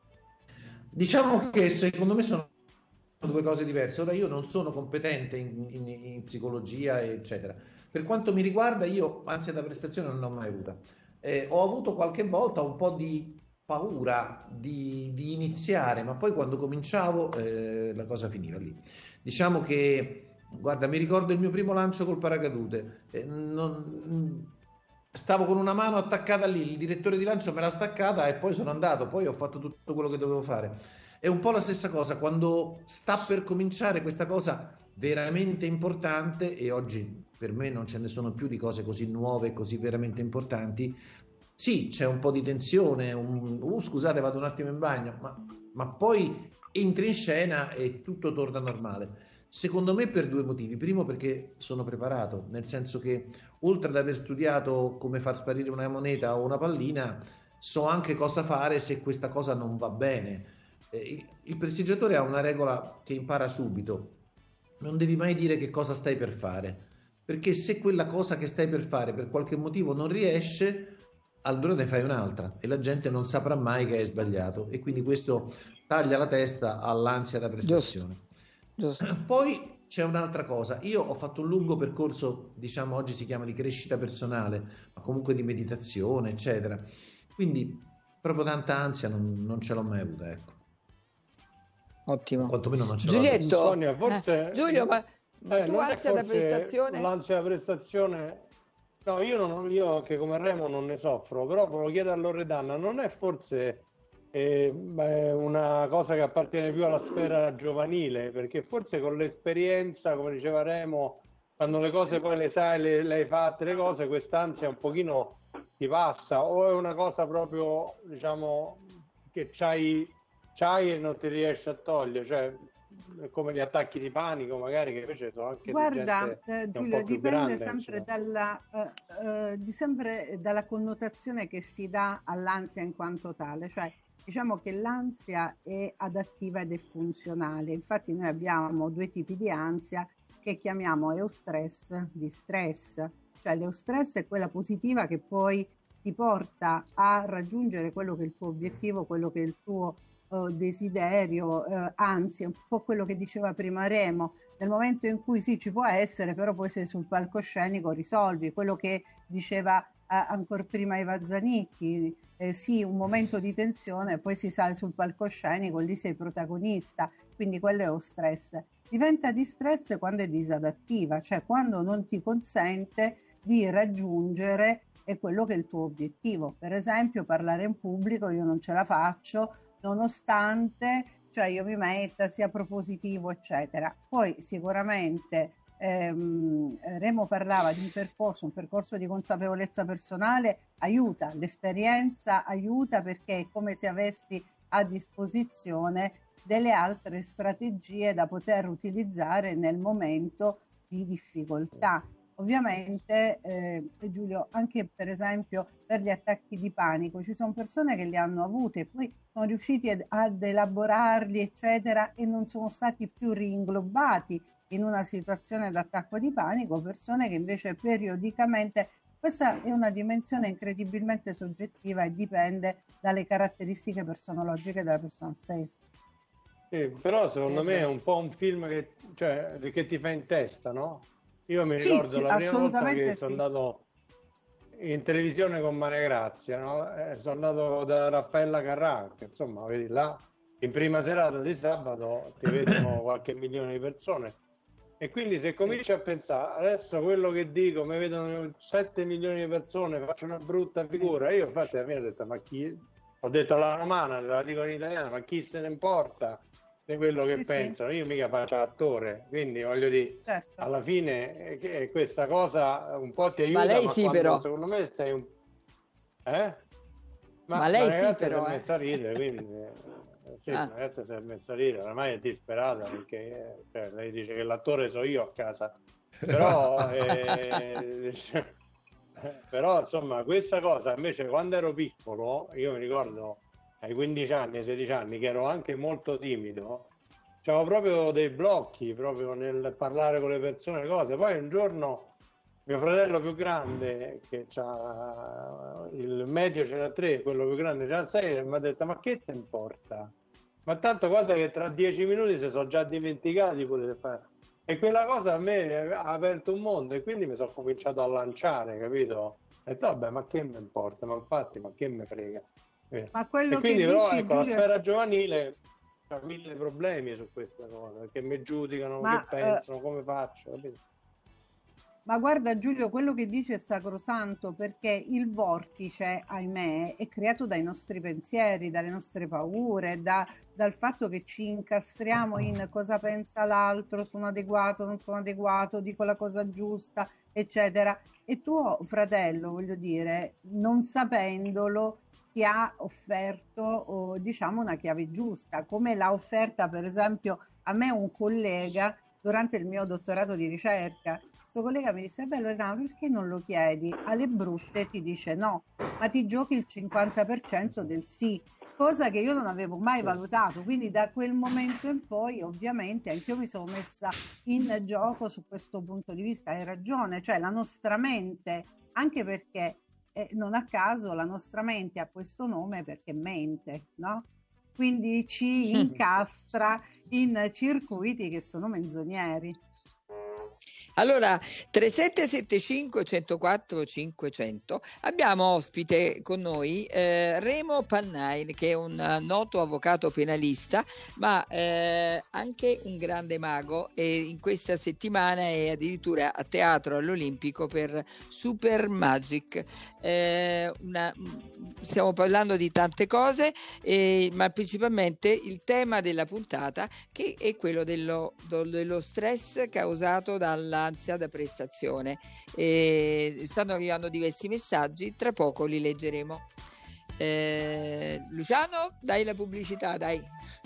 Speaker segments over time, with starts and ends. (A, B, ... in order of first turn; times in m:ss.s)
0:00.9-0:02.5 A
0:03.2-0:24.6 A
0:25.1-0:41.0 A
0:41.6-1:04.2 A
1:04.8-1:18.2 A
1:17.6-1:18.0 B
1:18.8-1:19.1 B
1:19.0-1:30.6 A
1:32.1-1:37.1 B
1:32.4-1:33.6 A
1:33.4-1:38.5 C
1:39.0-2:08.1 C
2:05.6-3:45.9 D
3:46.7-3:53.9 C
3:47.5-3:47.9 D
3:51.8-3:53.4 D
3:54.7-4:04.4 C
4:05.0-4:25.3 C
4:17.4-4:17.8 D
4:20.3-4:20.7 D
4:23.5-4:24.4 B
4:26.3-4:26.6 C
4:27.5-4:38.5 C
4:27.6-4:28.7 B
4:39.2-4:46.9 C
4:47.4-4:52.1 C
4:52.7-5:00.1 C
5:00.7-5:15.6 C
5:13.1-5:14.8 D
5:16.1-5:20.8 C
5:19.0-5:19.6 D
5:22.1-6:19.6 D
6:21.0-6:56.5 B
6:57.2-7:00.3 B